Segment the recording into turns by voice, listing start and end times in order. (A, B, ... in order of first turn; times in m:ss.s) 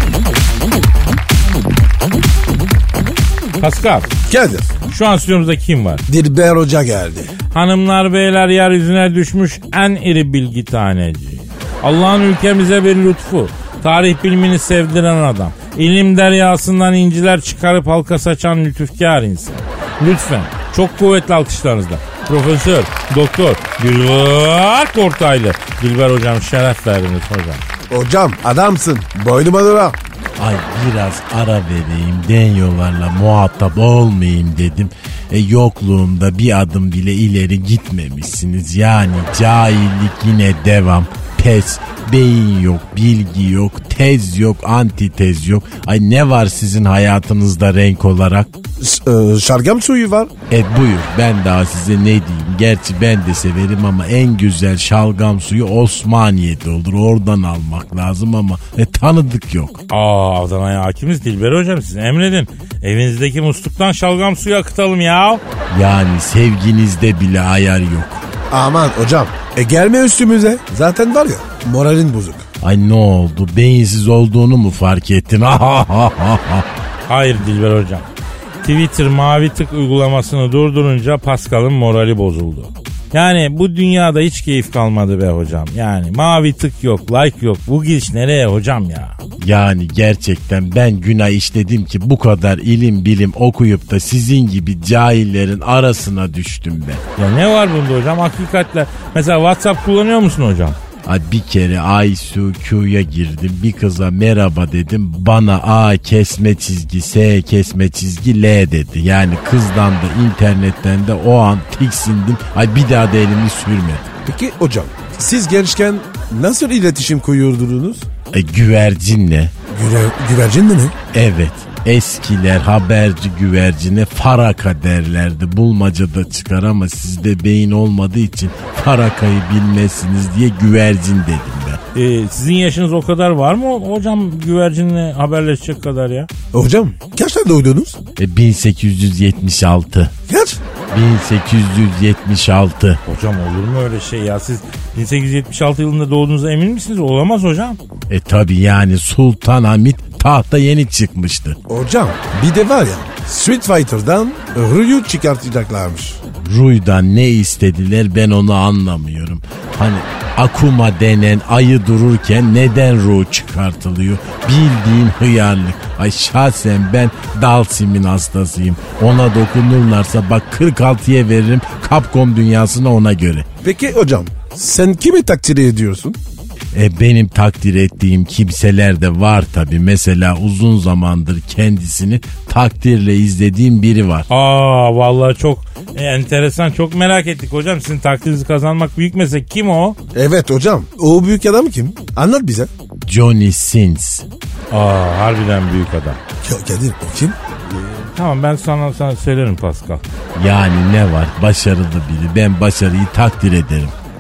0:03.6-0:04.1 A
0:04.3-0:04.7 B
0:04.9-0:06.0 A
0:06.1-0:07.3 B
0:07.5-0:27.6 A
0:27.9-0:30.0 B
0:30.4-0:48.5 C
0:48.8-0:50.3 B
0:50.5-0:59.8 C
0:59.9-1:05.4 A
1:05.7-1:08.2 C
1:08.5-1:12.5 B
1:12.6-1:16.6 C
1:17.1-1:18.1 A
1:18.6-1:29.2 A
1:29.4-1:37.0 C
1:37.2-1:40.8 A
1:41.0-1:54.1 C
1:54.3-1:58.1 B
1:58.3-1:59.5 C
1:59.7-2:01.0 B
2:01.1-2:11.8 C
2:11.9-2:16.3 A
2:16.5-2:18.0 B
2:18.2-2:20.1 C
2:20.3-2:20.6 B
2:20.9-2:23.0 C
2:23.1-2:27.8 A
2:28.1-2:31.6 C
2:31.7-2:36.2 B
2:36.3-2:53.5 C
2:53.6-2:56.2 B
2:56.7-3:04.3 C
3:04.3-3:10.0 A
3:10.1-3:12.7 B
3:13.0-3:14.3 C
3:14.7-3:16.2 A
3:16.4-3:17.4 B
3:18.1-3:20.0 A
3:20.3-3:23.9 C